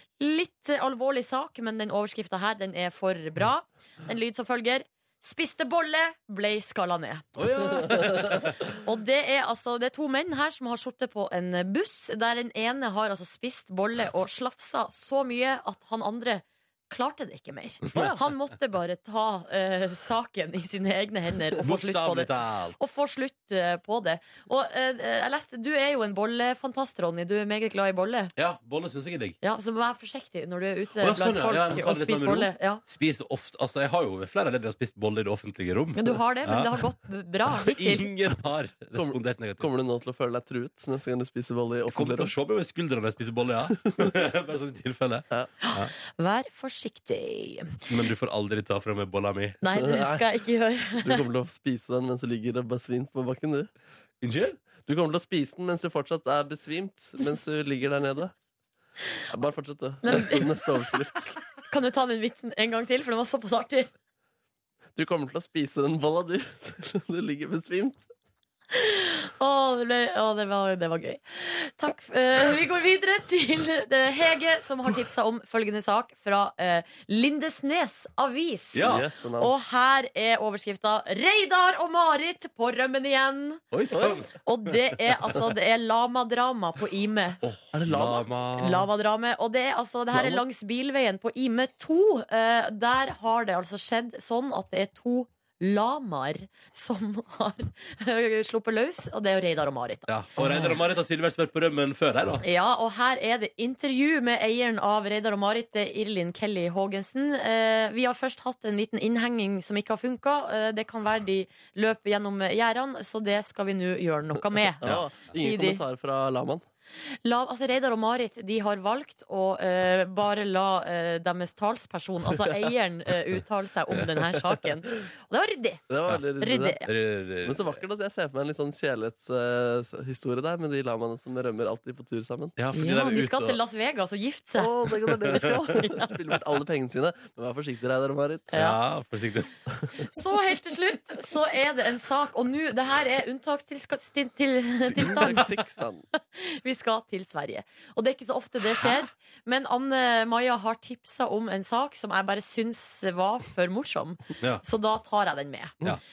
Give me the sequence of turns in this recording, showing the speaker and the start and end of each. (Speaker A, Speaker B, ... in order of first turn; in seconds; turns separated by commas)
Speaker A: 0.2-28.3, Speaker B: 7.4-8.6, Speaker B: 21.6-22.8, Speaker B: 28.4-29.4, Speaker A: 29.4-32.8, Speaker B: 31.0-36.7, Speaker A: 36.0-38.1, Speaker B: 37.6-39.7, Speaker C: 39.0-42.3, Speaker B: 41.9-45.9, Speaker A: 45.6-47.8, Speaker B: 47.9-49.6, Speaker A: 49.6-51.2, Speaker C: 49.8-50.2, Speaker C: 51.0-53.7, Speaker B: 54.2-54.6, Speaker C: 54.9-58.3, Speaker C: 59.3-61.4, Speaker A: 60.0-60.6, Speaker A: 61.7-63.9, Speaker C: 65.0-68.1, Speaker A: 68.7-83.6, Speaker B: 78.7-79.0, Speaker C: 78.8-79.5, Speaker B: 83.7-84.2, Speaker C: 83.9-84.2, Speaker A: 84.3-87.4, Speaker B: 87.4-88.8, Speaker C: 87.7-88.2, Speaker A: 88.6-100.5, Speaker C: 90.1-90.4, Speaker B: 100.1-102.4, Speaker A: 102.4-115.8, Speaker C: 114.8-116.6, Speaker A: 117.2-125.8, Speaker C: 125.9-126.8, Speaker A: 126.4-126.9, Speaker B: 126.9-127.8, Speaker C: 127.4-132.6, Speaker B: 132.6-133.6, Speaker A: 132.7-136.2, Speaker C: 134.6-138.6, Speaker B: 138.5-139.5, Speaker A: 138.5-138.8, Speaker A: 140.0-145.5, Speaker C: 144.9-146.0, Speaker A: 146.2-155.8